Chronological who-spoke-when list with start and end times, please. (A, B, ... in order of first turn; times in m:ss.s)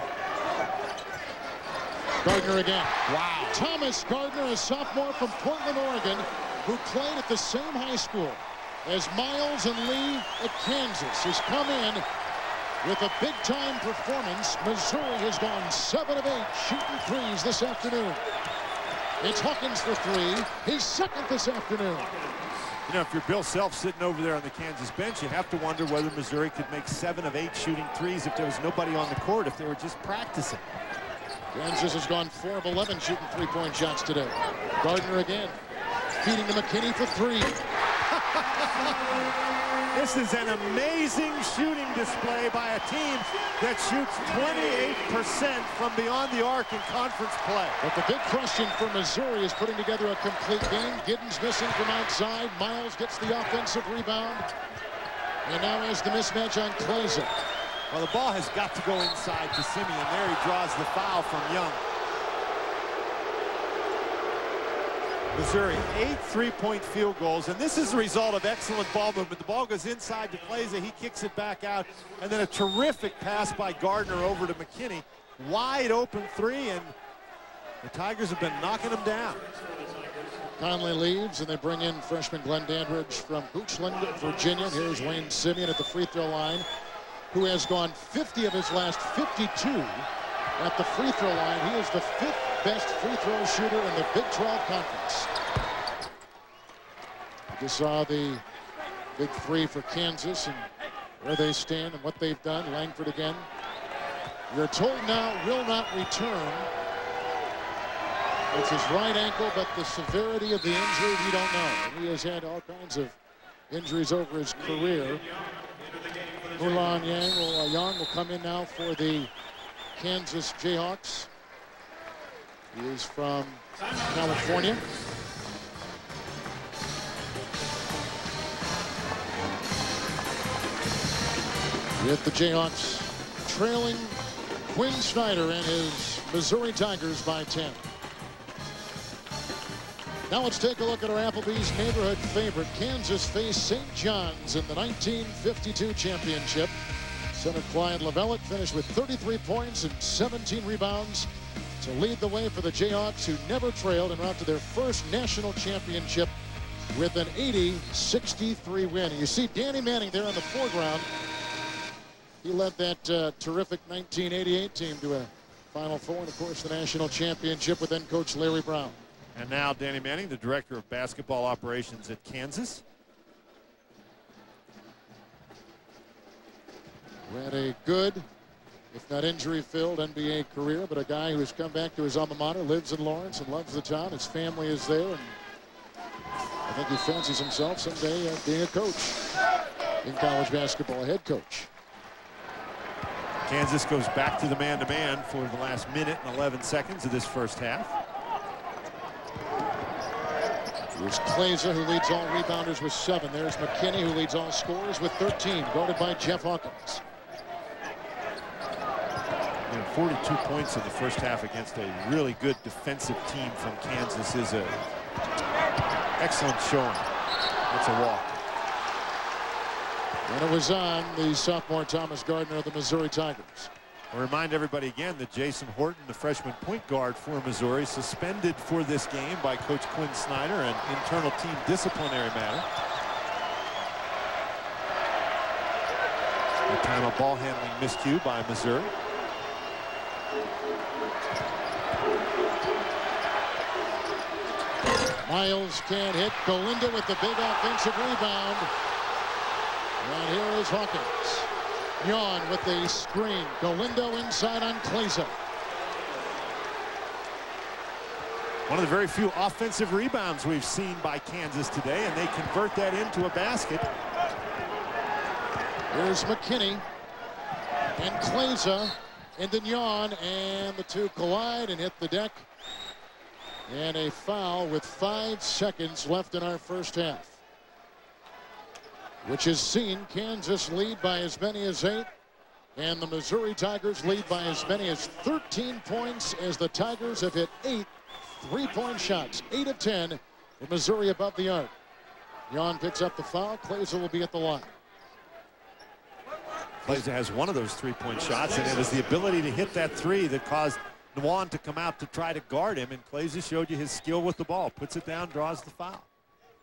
0:02.2-0:12.0 A
0:12.8-0:18.2 A
0:19.2-0:22.1 A
0:22.9-0:30.6 B
0:31.5-0:35.6 A
0:36.2-0:37.5 A
0:38.3-0:38.9 B
0:39.9-0:47.8 B
0:47.8-0:54.4 A
0:55.4-0:57.3 A
0:57.9-1:01.8 B
1:05.3-1:16.9 B
1:17.8-1:19.5 B
1:20.6-1:26.6 A
1:27.3-1:35.3 A
1:37.5-1:38.4 A
1:39.2-1:40.7 A
1:41.2-1:43.5 A
1:44.5-1:46.7 A
1:48.5-1:53.2 A
1:53.7-1:55.2 A
1:56.6-1:59.3 A
2:00.0-2:01.3 A
2:02.7-2:04.8 A
2:12.0-2:14.2 A
2:14.7-2:17.8 A
2:20.3-2:26.7 A
2:27.3-2:31.3 A
2:31.8-2:36.3 A
2:36.9-2:41.1 A
2:42.4-2:49.0 A
2:49.3-2:52.8 B
2:57.3-2:58.2 A
2:58.9-3:05.3 A
3:06.7-3:09.2 A
3:10.0-3:11.7 A
3:13.5-3:17.9 B
3:20.9-3:27.0 A
3:29.7-3:34.9 B
3:36.2-3:37.1 B
3:37.7-3:38.4 B
3:40.3-3:43.7 A
3:44.1-3:52.6 B
3:56.6-3:58.9 B
4:05.2-4:08.7 A
4:10.0-4:11.5 A
4:12.0-4:15.3 A
4:18.7-4:23.9 B
4:25.9-4:26.8 A
4:28.0-4:32.5 A
4:33.7-4:37.4 A
4:39.2-4:42.1 A
4:42.8-4:51.7 A
4:52.5-4:54.7 A
4:56.8-5:06.1 B